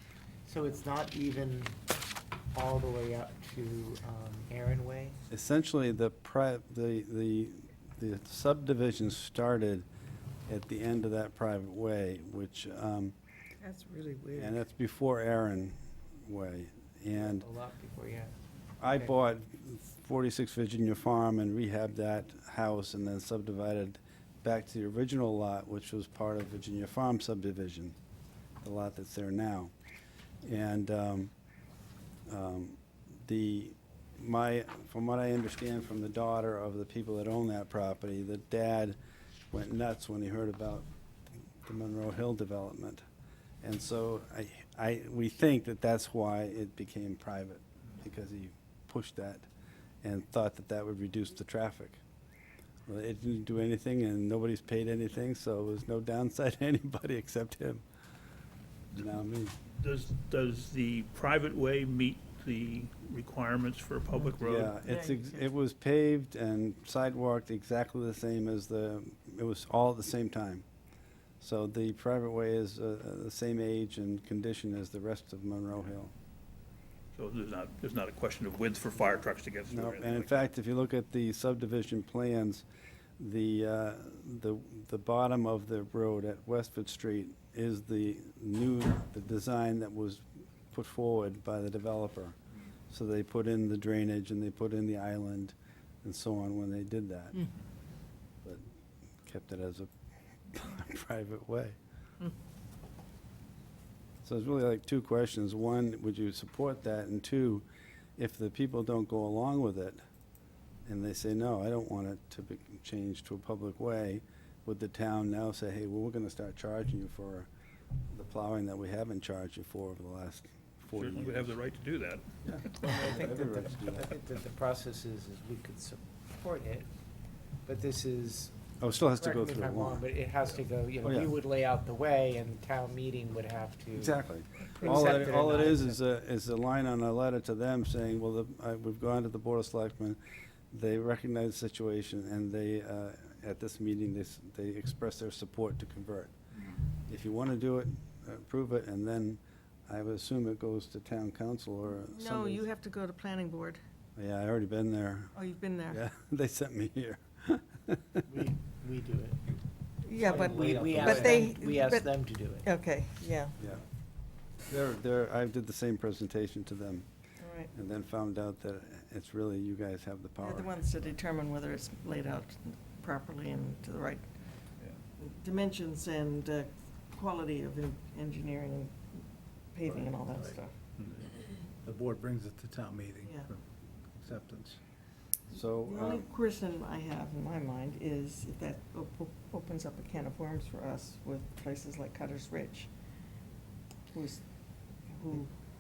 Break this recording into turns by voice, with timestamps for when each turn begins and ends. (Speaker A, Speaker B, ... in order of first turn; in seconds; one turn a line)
Speaker A: 0.5-1.7
Speaker A: 2.5-5.2
Speaker B: 5.3-9.9
Speaker B: 10.5-13.1
Speaker C: 13.6-14.6
Speaker B: 14.3-17.5
Speaker A: 17.1-18.3
Speaker B: 18.8-28.0
Speaker A: 18.9-19.1
Speaker B: 28.6-29.7
Speaker B: 30.4-31.3
Speaker B: 32.3-39.0
Speaker B: 39.5-40.9
Speaker B: 41.6-43.0
Speaker B: 43.6-49.5
Speaker B: 50.0-52.0
Speaker B: 52.9-57.8
Speaker B: 59.0-59.5
Speaker D: 59.8-64.8
Speaker B: 64.4-70.7
Speaker C: 64.9-65.5
Speaker B: 71.4-76.1
Speaker D: 77.2-80.5
Speaker B: 79.7-82.7
Speaker B: 83.2-92.4
Speaker B: 92.9-97.4
Speaker B: 99.3-99.9
Speaker B: 100.5-101.8
Speaker B: 104.2-107.7
Speaker B: 108.2-110.0
Speaker B: 110.9-117.5
Speaker B: 118.1-121.6
Speaker D: 121.0-122.3
Speaker B: 122.5-124.2
Speaker A: 122.8-126.9
Speaker A: 127.7-128.5
Speaker B: 128.8-130.0
Speaker A: 129.1-134.2
Speaker B: 131.0-131.3
Speaker B: 133.9-140.2
Speaker A: 134.8-136.0
Speaker C: 134.8-135.3
Speaker B: 140.7-146.3
Speaker B: 147.1-152.6
Speaker C: 152.1-153.8
Speaker B: 154.2-155.3
Speaker C: 155.3-156.0
Speaker B: 155.9-158.2
Speaker A: 158.3-159.4
Speaker C: 160.1-162.1
Speaker A: 160.2-162.7
Speaker E: 160.3-161.5
Speaker C: 162.6-163.6
Speaker B: 164.7-167.1
Speaker C: 167.4-167.7
Speaker B: 167.7-171.1
Speaker C: 170.4-174.3
Speaker C: 175.2-179.0
Speaker C: 179.7-180.7
Speaker E: 179.9-181.3
Speaker E: 181.8-183.6
Speaker C: 183.2-183.5
Speaker E: 184.2-184.8
Speaker B: 185.5-186.3
Speaker C: 185.8-192.9
Speaker C: 194.1-194.4
Speaker C: 195.1-195.5